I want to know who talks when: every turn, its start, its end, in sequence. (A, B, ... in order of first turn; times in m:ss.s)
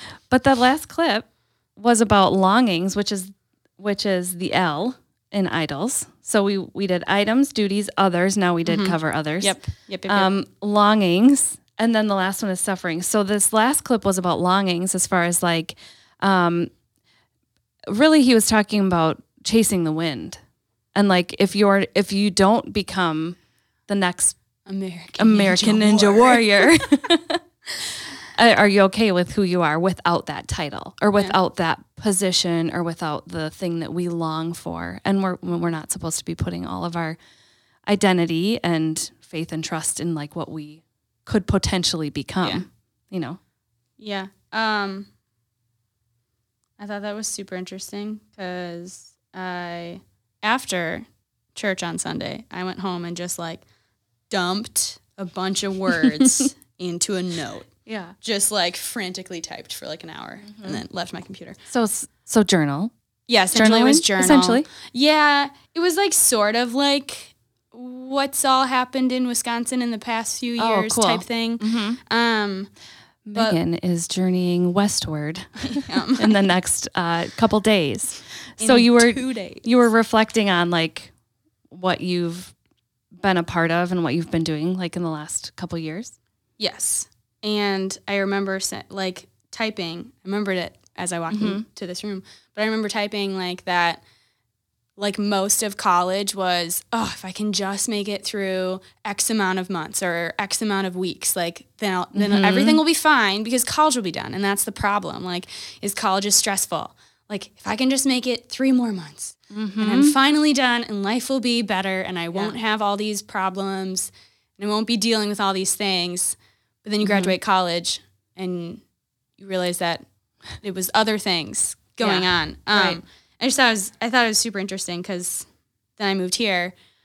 0:00.3-0:09.6 A
0:08.7-0:10.3 B
0:10.1-0:16.7 A
0:17.9-0:20.4 A
0:20.9-0:23.4 A
0:23.9-0:24.4 A
0:24.6-0:26.6 B
0:25.2-0:27.4 A
0:28.3-0:37.2 A
0:37.9-0:43.4 A
0:44.0-0:45.1 B
0:46.8-0:53.6 B
0:54.3-0:57.7 B
0:57.9-0:58.1 A
0:58.2-1:01.6 B
1:00.5-1:00.8 A
1:01.7-1:02.9 A
1:03.3-1:12.7 B
1:03.5-1:04.6 A
1:10.6-1:12.0 A
1:13.2-1:21.1 A
1:15.7-1:16.4 B
1:18.6-1:19.8 B
1:21.7-1:22.5 A
1:23.2-1:26.1 A
1:26.6-1:34.0 B
1:31.3-1:31.6 A
1:35.0-1:58.8 B
1:42.1-1:42.8 A
1:49.5-1:50.1 A
1:57.0-1:57.3 A
1:59.4-2:00.0 B
2:00.6-2:05.4 B
2:02.0-2:03.0 A
2:06.0-2:06.7 B